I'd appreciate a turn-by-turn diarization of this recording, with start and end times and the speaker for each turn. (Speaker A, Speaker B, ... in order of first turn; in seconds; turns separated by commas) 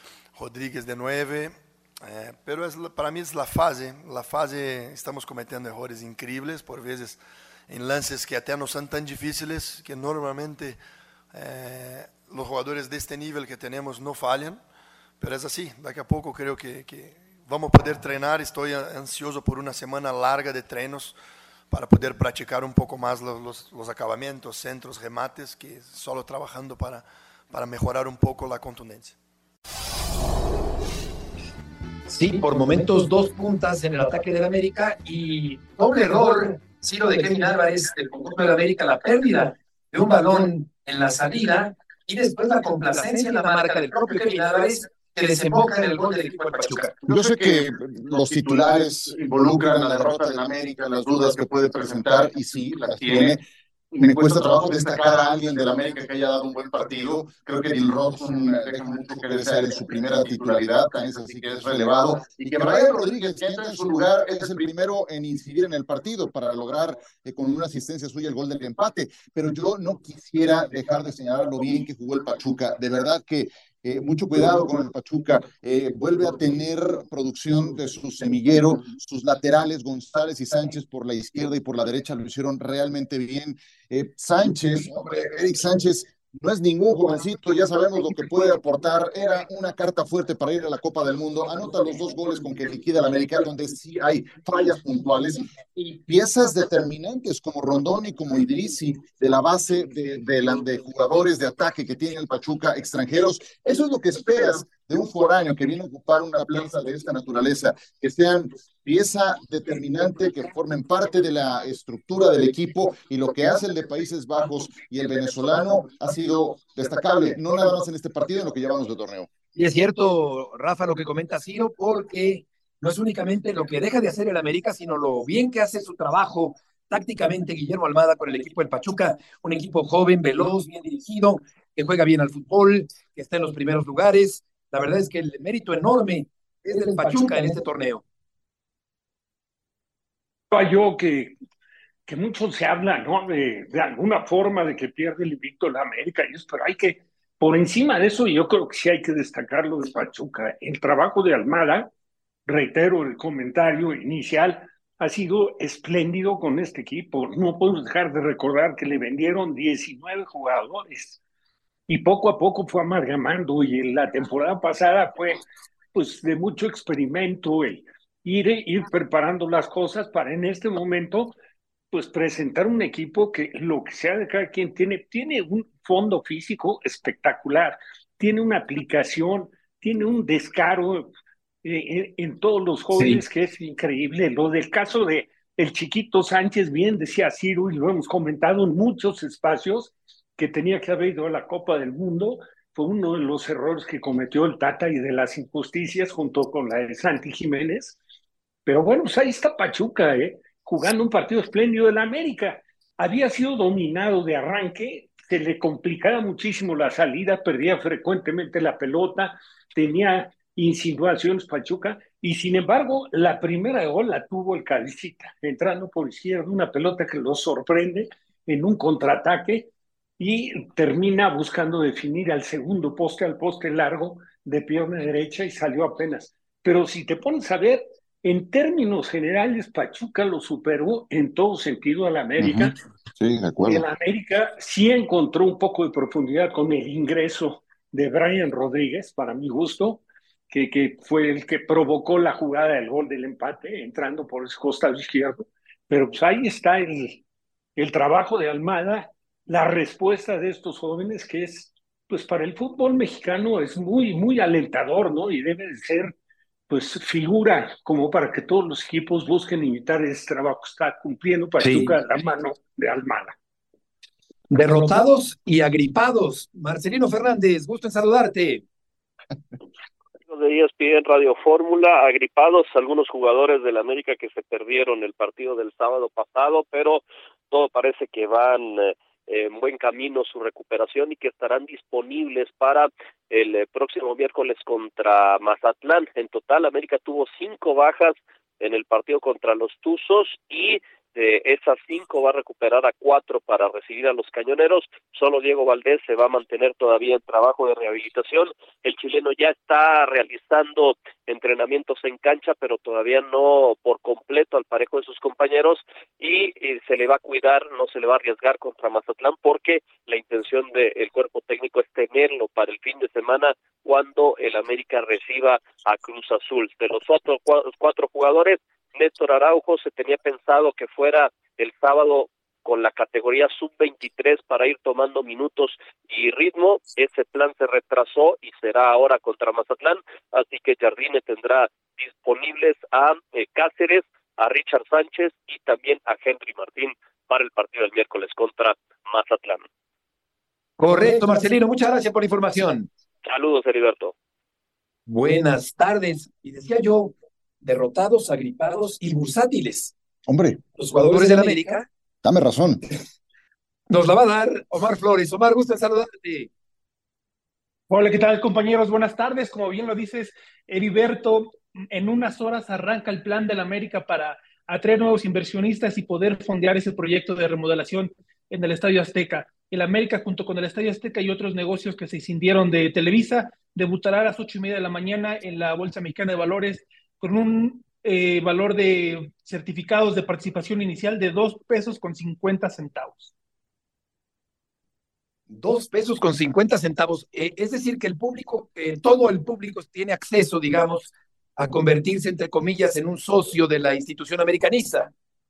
Speaker A: 0.3-10.8, Speaker A: 11.3-14.6, Speaker A: 15.2-21.1, Speaker A: 21.7-29.2, Speaker B: 32.1-46.9, Speaker C: 47.1-119.3, Speaker B: 119.6-138.0, Speaker D: 140.5-141.3, Speaker D: 142.1-151.9, Speaker D: 152.5-161.2, Speaker D: 161.9-165.4, Speaker D: 165.9-171.3, Speaker D: 171.9-181.1, Speaker D: 181.6-198.0, Speaker B: 182.9-183.2, Speaker D: 198.7-232.8, Speaker C: 232.4-233.8, Speaker D: 233.7-247.2, Speaker D: 247.8-256.1, Speaker D: 256.7-263.4, Speaker B: 261.6-262.0, Speaker B: 264.5-268.6, Speaker E: 270.3-339.7, Speaker B: 340.8-342.9, Speaker E: 343.2-344.1, Speaker B: 345.1-349.9, Speaker C: 350.3-350.6, Speaker B: 350.8-351.9, Speaker C: 352.2-352.8, Speaker B: 353.9-356.5, Speaker F: 357.9-383.3, Speaker B: 385.5-395.1